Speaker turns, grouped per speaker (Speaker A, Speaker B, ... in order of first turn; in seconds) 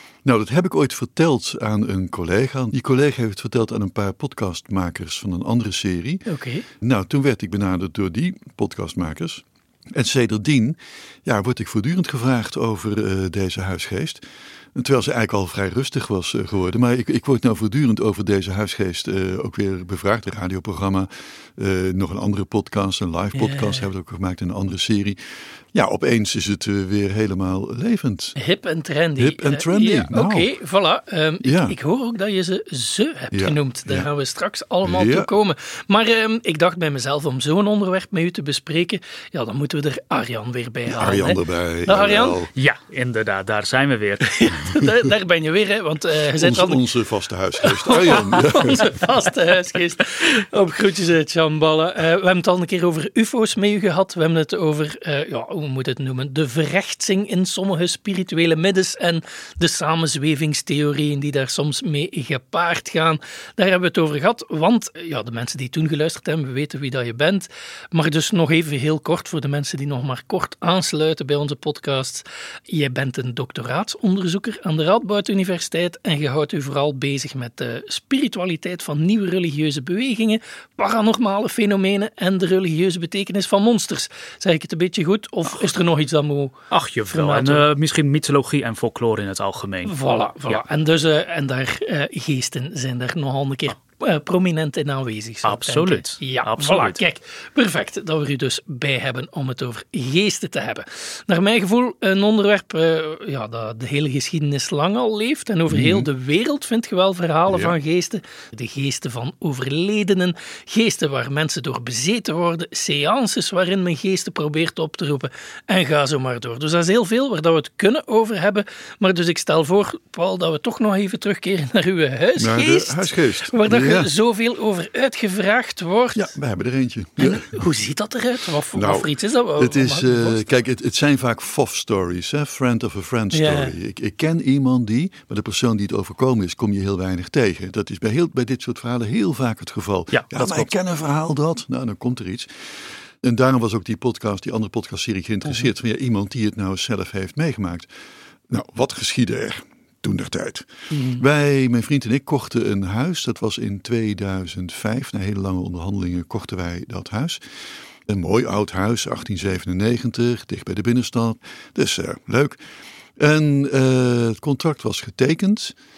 Speaker A: 0.2-6.2, 6.8-14.2, 14.7-25.2, 25.7-28.4, 29.2-30.5, 31.4-31.7, 33.3-34.1, 34.8-35.3, 40.9-42.5, 46.3-48.9, 105.7-106.1, 107.5-107.8, 122.4-124.1, 126.1-127.6, 128.7-147.9, 148.5-157.5, 158.1-162.6, 163.2-165.8
Speaker B: 6.3-6.6, 23.3-23.9, 28.4-42.4, 44.3-46.8, 47.6-86.5, 87.1-87.7, 89.8-126.3, 127.2-130.4, 133.3-133.7, 150.9-151.2
Speaker C: 42.5-44.5, 86.7-89.9, 95.4-97.0, 140.1-140.7